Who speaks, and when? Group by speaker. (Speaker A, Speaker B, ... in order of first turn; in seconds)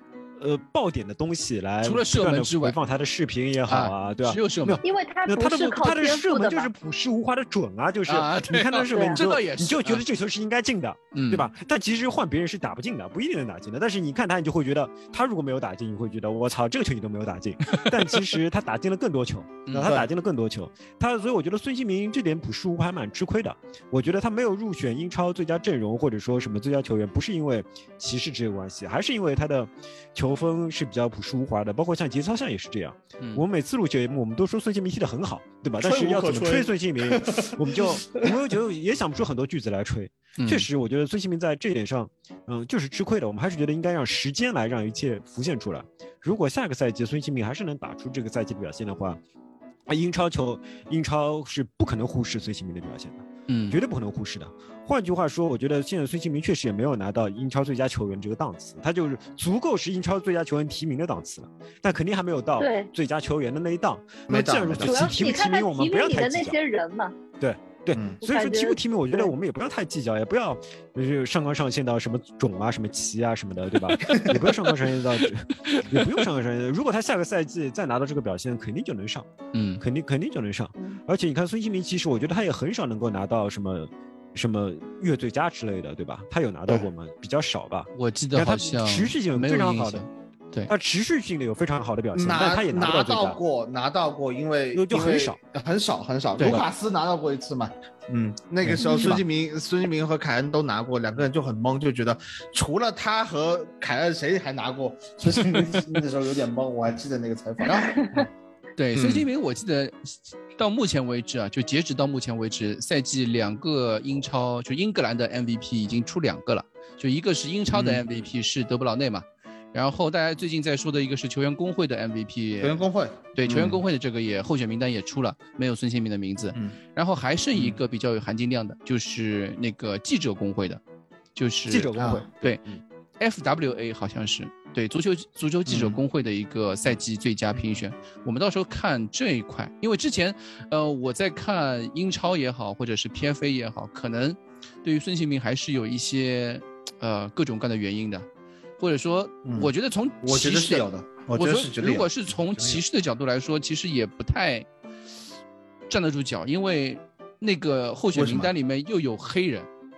Speaker A: 0.4-49.2, 49.9-66.6, 67.4-79.3, 79.8-90.0, 90.7-93.4, 94.7-95.4, 131.7-132.8
Speaker B: 1.8-2.8, 3.7-4.8, 8.1-10.0, 11.1-11.5, 17.7-18.1, 19.7-20.0, 33.2-33.4, 40.4-40.7, 53.5-53.8, 79.5-79.8, 87.9-90.7, 96.4-96.7, 98.8-99.2, 107.6-108.0, 108.8-130.8, 131.3-132.6, 133.2-148.2, 148.8-154.7, 155.9-159.7
Speaker C: 4.8-6.7, 8.9-9.2, 62.6-62.9, 64.8-67.1, 68.2-69.3, 98.8-99.1
Speaker D: 19.8-20.1, 35.8-38.2, 64.3-65.1, 67.9-68.2, 74.0-74.4, 92.1-108.3, 108.9-109.3, 117.7-118.1, 122.6-123.8, 127.5-127.8, 131.9-132.2, 135.7-136.0, 149.4-149.7, 150.2-152.8, 158.1-158.5